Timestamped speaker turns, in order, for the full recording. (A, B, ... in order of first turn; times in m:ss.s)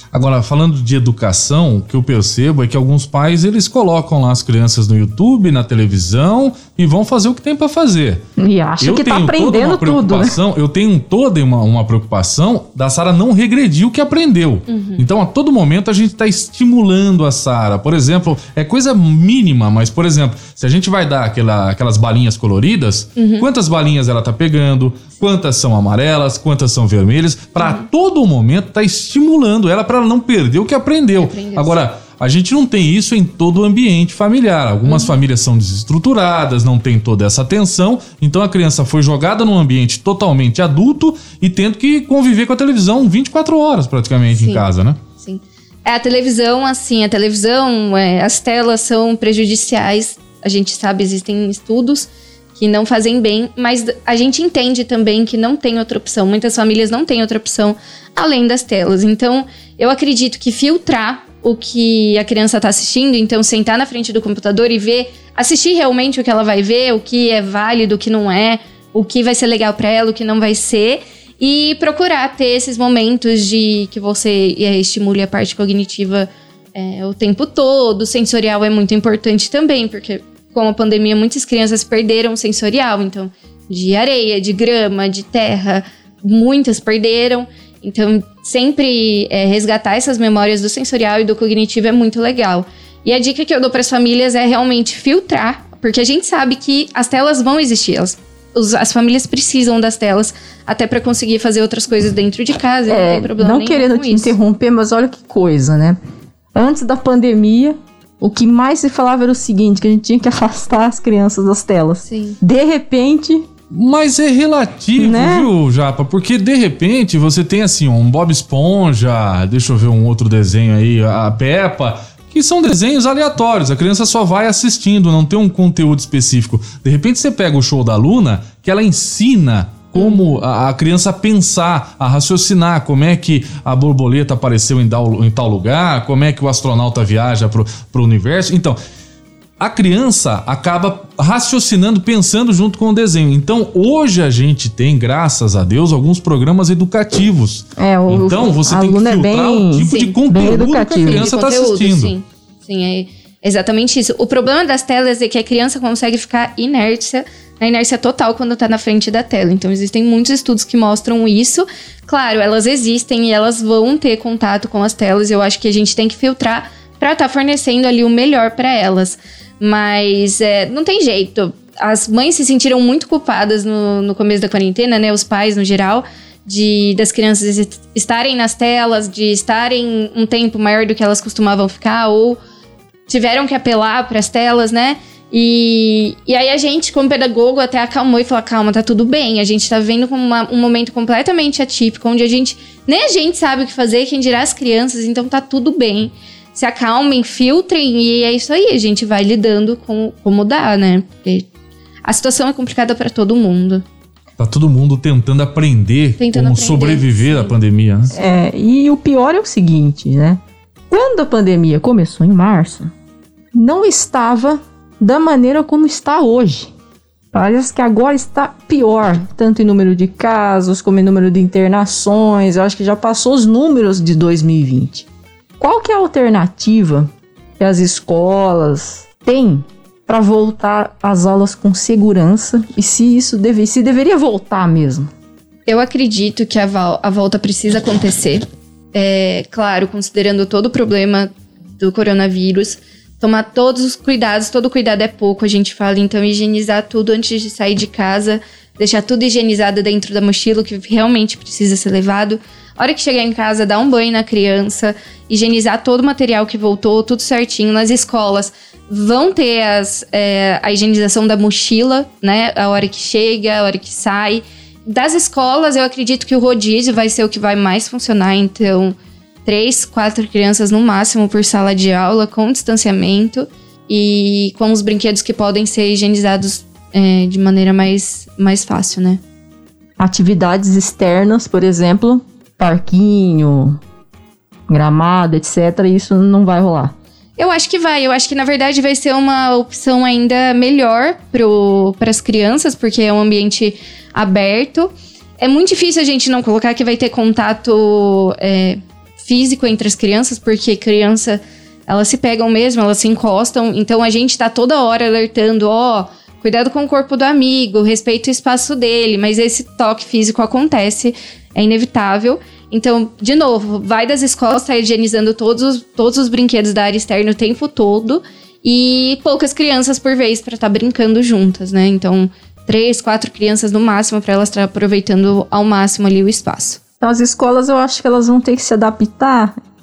0:00.1-0:08.2 A
0:08.4-0:10.4 B
0:08.8-0:45.0 A
0:14.7-0:15.0 C
0:23.2-0:23.5 C
0:27.6-0:27.9 C
0:31.2-0:31.8 C
0:34.9-0:35.2 C
0:44.4-0:44.6 C
0:45.2-1:44.4 C
1:42.9-1:46.0 B
1:46.6-1:53.5 B
1:52.1-1:52.4 C
1:53.7-2:18.8 A
1:55.0-1:55.5 B
2:10.0-2:10.4 C
2:19.6-2:32.1 A
2:27.8-2:31.3 B
2:29.8-2:30.2 C
2:31.0-3:02.4 C
3:03.1-3:21.5 C
3:22.0-3:23.8 C
3:24.4-3:28.1 A
3:26.2-3:27.6 C
3:28.1-3:32.9 B
3:33.5-3:36.7 B
3:37.3-3:45.1 B
3:45.6-3:55.1 B
3:55.7-3:58.4 C
3:58.9-4:39.2 C
4:40.0-4:43.8 B
4:44.7-4:47.0 B
4:47.4-5:26.8 C
5:27.0-5:29.6 B